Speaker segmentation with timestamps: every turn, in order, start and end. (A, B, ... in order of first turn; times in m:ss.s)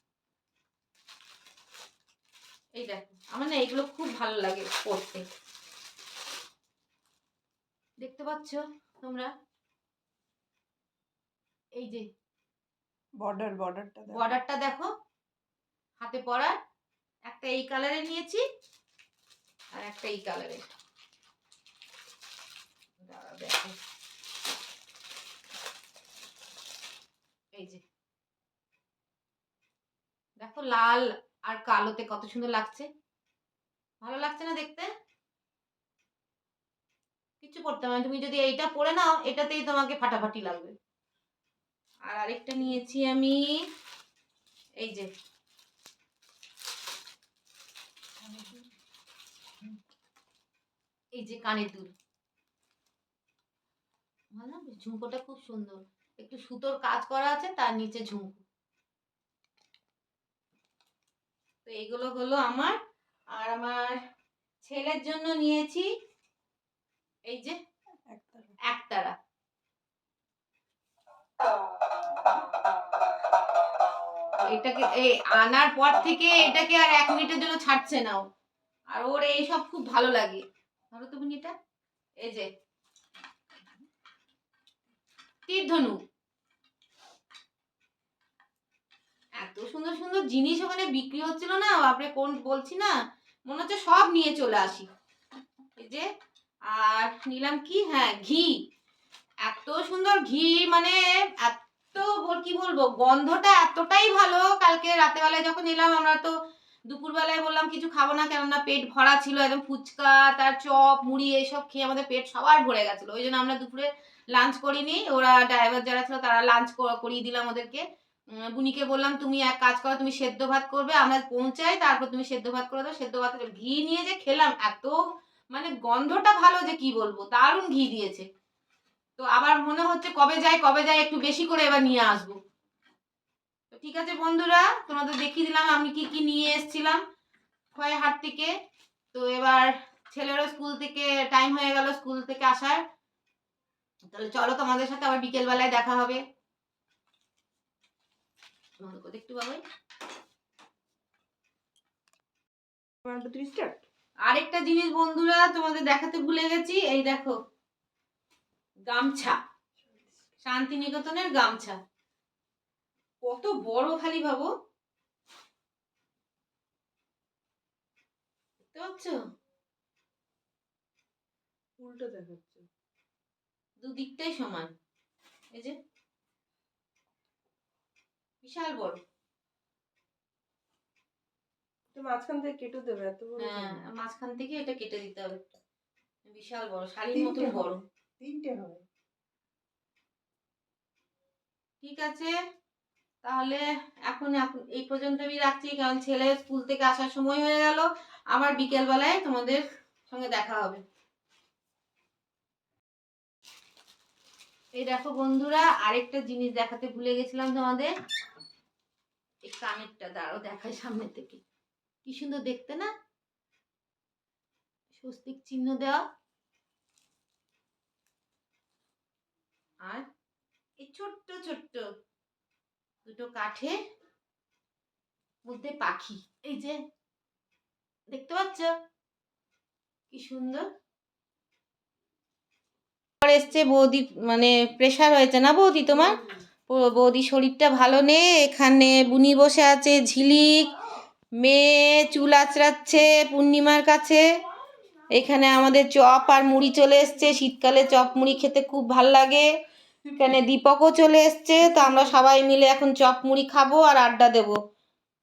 0:02.8-0:05.2 A
0:08.0-0:09.3 A
0:11.8-0:12.1 A
0:13.2-0:14.3 B
0:14.1-0:14.9 A
0:16.0-0:16.6 A
0:17.3-0:18.4 A
0:19.7-0:20.6 A
0:23.0-0:23.7 A
0:30.4-0:32.9 A
0:34.0-0:34.9 A
0:37.4-0:40.7 A
0:42.1-0:43.6 A
0:44.8-0:45.1 A
0:48.2-0:48.7 C
0:51.1-0:51.9 A
0:54.3-0:58.4 A
1:01.6-1:02.8 A
1:03.3-1:04.0 A
1:04.6-1:05.9 A
1:07.3-1:07.6 A
1:08.1-1:08.5 B
1:08.7-1:09.1 A
1:14.4-1:18.2 A
1:18.9-1:21.5 A
1:22.2-1:22.5 A
1:25.5-1:26.0 A
1:29.4-1:32.9 A
1:33.4-1:34.9 A
1:35.8-1:36.0 A
1:36.7-1:38.6 A
1:39.4-1:46.3 A
1:46.9-2:05.0 A
2:05.5-2:08.2 A
2:09.2-2:12.4 A
2:13.7-2:17.0 A
2:17.7-2:18.5 A
2:19.1-2:22.8 A
2:24.1-2:26.2 A
2:28.8-2:29.6 A
2:33.0-2:33.8 B
2:34.2-2:37.4 A
2:38.9-2:39.4 A
2:40.4-2:41.8 A
2:43.2-2:44.5 A
2:48.7-2:49.2 A
2:51.8-2:52.6 B
2:53.8-2:54.7 A
2:58.4-2:59.0 A
3:01.9-3:03.8 B
3:03.4-3:05.4 A
3:06.3-3:07.8 A
3:07.1-3:08.8 C
3:11.8-3:12.3 A
3:13.2-3:20.8 A
3:24.8-3:27.9 A
3:29.4-3:31.4 A
3:32.0-3:32.9 A
3:34.9-3:36.0 A
3:40.8-3:41.8 A
3:43.0-3:43.8 A
3:45.4-3:46.8 A
3:48.1-3:48.7 A
3:50.1-3:50.6 A
3:53.2-4:00.7 A
4:01.4-4:04.2 A
4:05.2-4:09.5 A
4:10.0-4:14.6 A